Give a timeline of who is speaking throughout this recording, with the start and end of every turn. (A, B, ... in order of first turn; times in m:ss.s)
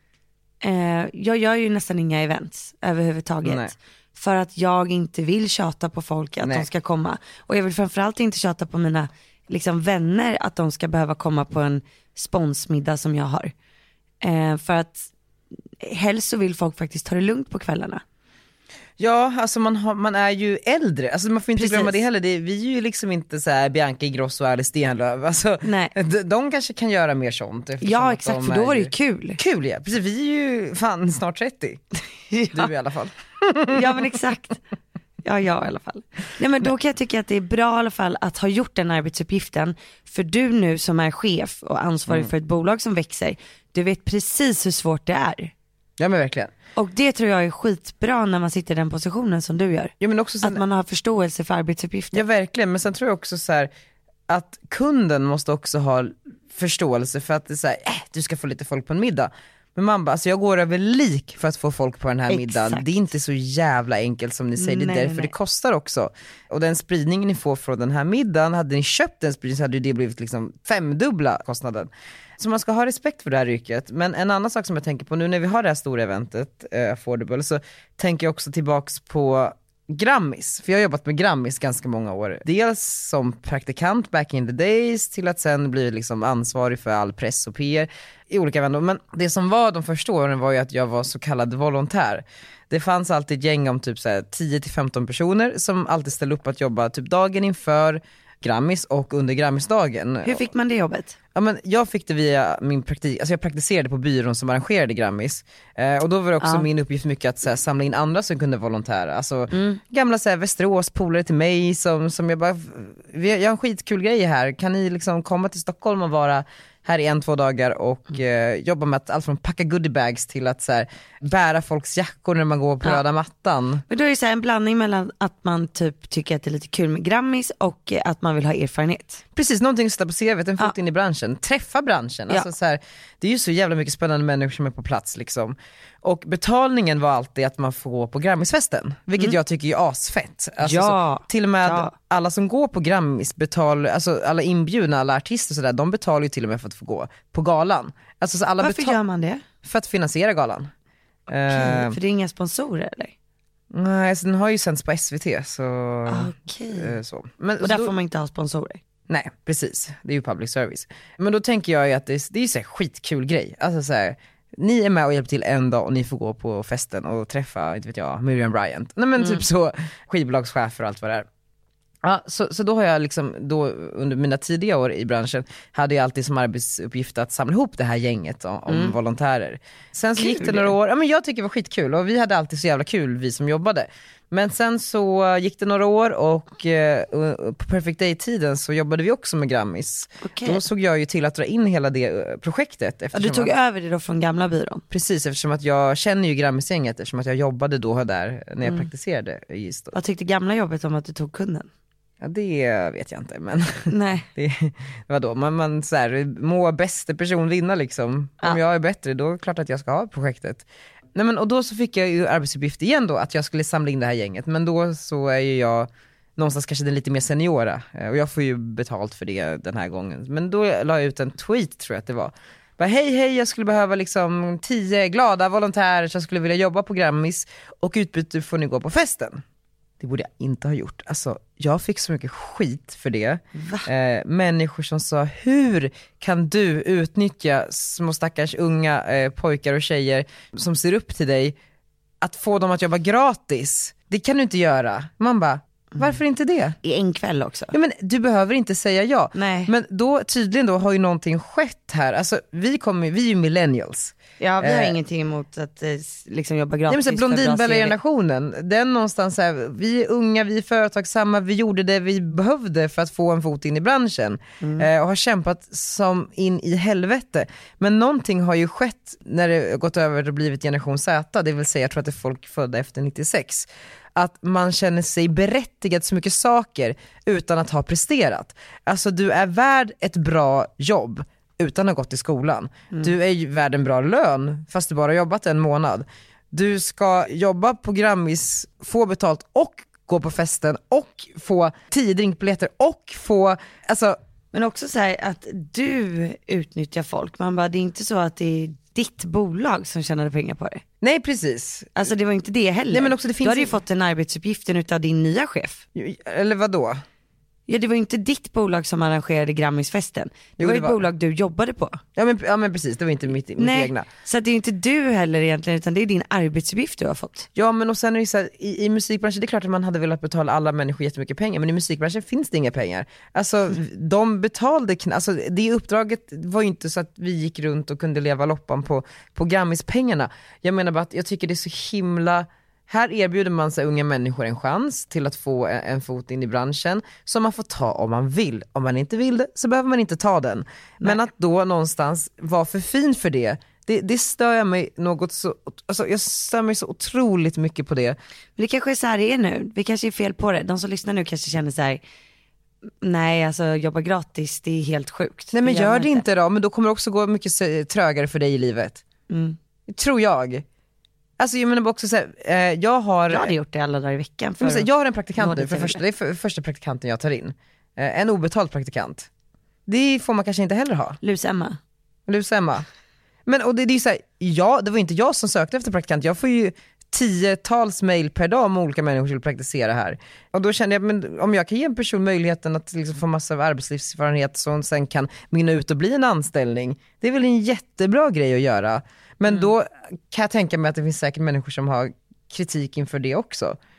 0:00.6-0:13.5 A
0:03.4-0:03.7 B
0:06.4-0:06.7 B
0:14.2-0:15.1 A
0:15.8-0:18.0 A
0:19.0-0:31.8 B
0:21.6-0:22.0 A
0:25.6-0:25.9 A
0:27.8-0:29.4 A
0:32.3-0:32.7 A
0:32.5-0:34.0 B
0:33.7-0:34.6 A
0:35.2-0:45.5 A
0:46.0-0:46.5 B
0:46.8-0:52.2 A
0:50.0-0:50.6 B
0:52.1-0:53.7 B
0:54.3-1:40.4 B
1:02.3-1:02.9 A
1:04.6-1:05.3 A
1:40.2-1:41.2 A
1:41.3-2:03.8 B
1:49.5-1:49.8 A
2:03.9-2:09.2 A
2:09.3-2:29.0 B
2:20.6-2:21.9 A
2:28.6-2:29.4 A
2:29.6-2:30.7 B
2:31.3-2:32.0 B
2:31.3-2:33.1 A
2:33.7-2:37.9 B
2:36.1-2:36.9 A
2:37.6-2:38.8 A
2:39.1-2:51.3 B
2:49.2-2:49.4 A
2:52.0-3:13.5 B
2:58.7-2:59.0 A
3:00.2-3:00.7 A
3:10.2-3:10.6 A
3:13.1-3:14.8 A
3:14.9-3:19.9 B
3:18.6-3:18.9 A
3:19.9-3:21.7 A
3:22.2-3:49.4 B
3:23.9-3:24.3 A
3:50.0-4:01.6 B
3:53.5-3:53.9 A
4:02.2-4:06.8 B
4:06.8-4:07.7 A
4:07.7-4:15.0 B
4:09.3-4:09.7 A
4:14.4-4:18.0 A
4:16.9-4:54.2 B
4:24.6-4:24.9 A
4:54.5-5:00.8 A
5:01.0-5:02.1 B
5:02.0-5:05.8 A
5:02.9-5:03.7 B
5:05.9-5:07.0 B
5:07.7-5:12.0 A
5:10.6-5:11.0 B
5:12.2-5:14.1 B
5:13.6-5:17.5 A
5:17.5-5:48.2 B
5:48.6-5:52.0 A
5:53.0-5:56.2 A
5:55.5-5:59.0 B
5:59.3-5:59.6 A
5:59.9-6:00.6 B
6:01.4-6:03.5 B
6:03.3-6:06.0 A
6:04.6-6:09.3 B
6:09.9-6:11.2 B
6:11.2-6:11.8 A
6:12.3-6:12.8 B
6:13.4-6:33.8 B